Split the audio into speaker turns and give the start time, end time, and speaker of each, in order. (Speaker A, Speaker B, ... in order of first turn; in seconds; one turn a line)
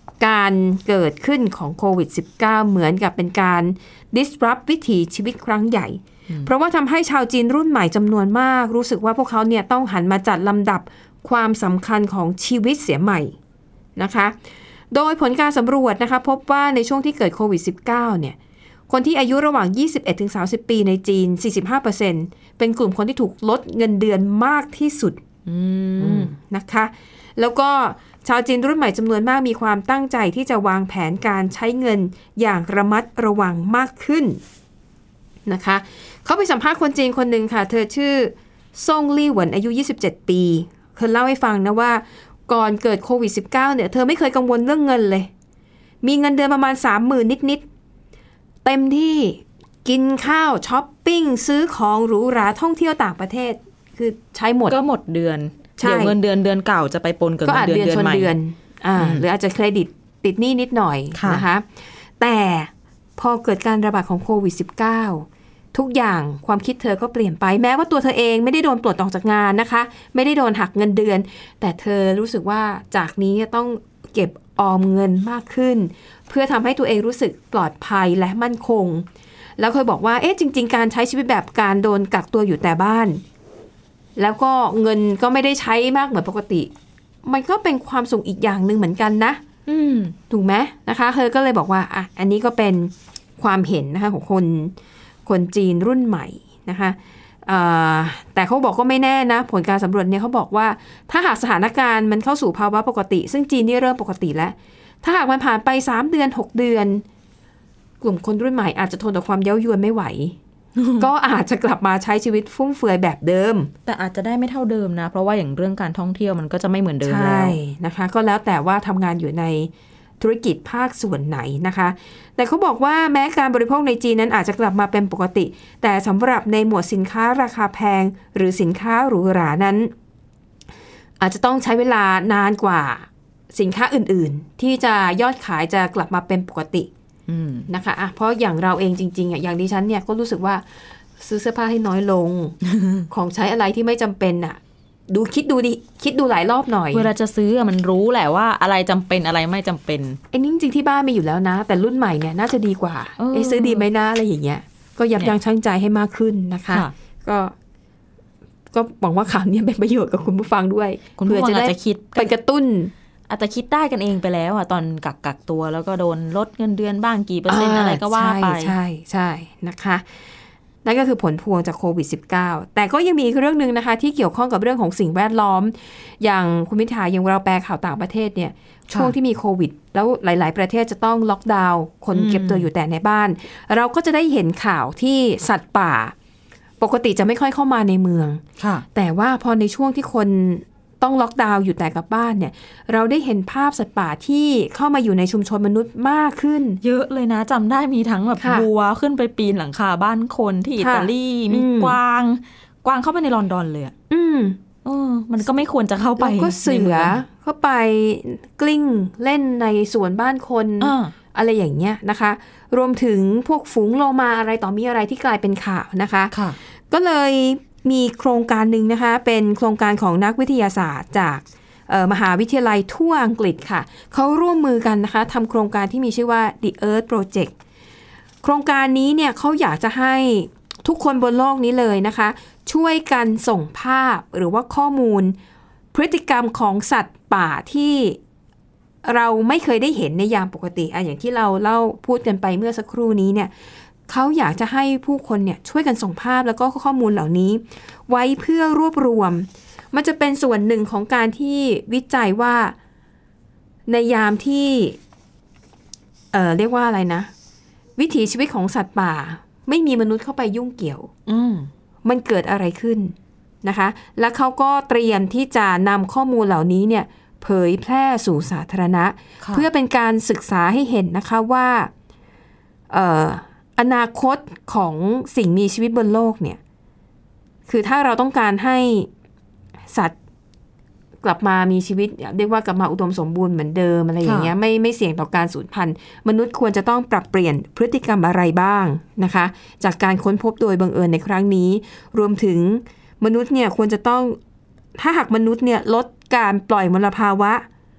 Speaker A: 0.2-13.4
Speaker A: 14.0-14.3
Speaker A: 14.9-18.4
Speaker A: 18.9-25.2
Speaker B: 25.5-26.3
Speaker A: 26.0-34.4
Speaker A: 35.5-45.3
Speaker A: 46.0-47.6
Speaker A: 48.6-54.8
Speaker B: 54.7-58.3
Speaker A: 55.8-56.1
Speaker A: 57.5-79.1
Speaker B: 59.0-59.2
Speaker B: 61.1-61.4
Speaker A: 79.6-83.2
Speaker A: 84.2-86.7
Speaker A: 87.2-89.6
Speaker B: 89.7-90.1
Speaker A: 90.2-94.7
Speaker A: 95.3-107.0
Speaker A: 108.0-110.4
Speaker B: 110.8-111.1
Speaker A: 111.0-113.7
Speaker B: 113.9-117.6
Speaker A: 117.0-129.9
Speaker A: 131.2-136.9
Speaker B: 137.3-137.7
Speaker A: 137.7-140.7
Speaker A: 141.2-142.6
Speaker B: 142.7-143.1
Speaker A: 143.1-147.1
Speaker B: 146.9-150.2
Speaker A: 150.3-157.5
Speaker B: 153.2-153.9
Speaker A: 158.7-162.9
Speaker B: 161.2-162.3
Speaker B: 163.3-168.8
Speaker A: 167.5-170.0
Speaker A: 170.8-186.1
Speaker B: 182.1-182.7
Speaker A: 186.8-188.4
Speaker B: 188.6-188.8
Speaker A: 188.9-196.8
Speaker B: 196.8-203.9
Speaker A: 198.4-198.7
Speaker A: 200.8-202.0
Speaker A: 204.1-204.6
Speaker B: 204.8-207.2
Speaker A: 206.2-216.3
Speaker B: 210.8-211.1
Speaker B: 216.3-216.6
Speaker A: 216.9-227.5
Speaker A: 228.4-235.4
Speaker A: 235.9-238.2
Speaker A: 239.1-243.5
Speaker A: 244.1-252.8
Speaker A: 253.9-255.0
Speaker A: 256.3-257.3
Speaker A: 258.0-261.1
Speaker B: 261.3-261.7
Speaker A: 262.1-271.9
Speaker A: 272.9-276.6
Speaker A: 277.7-279.1
Speaker A: 281.2-294.4
Speaker B: 284.2-284.5
Speaker A: 295.0-297.7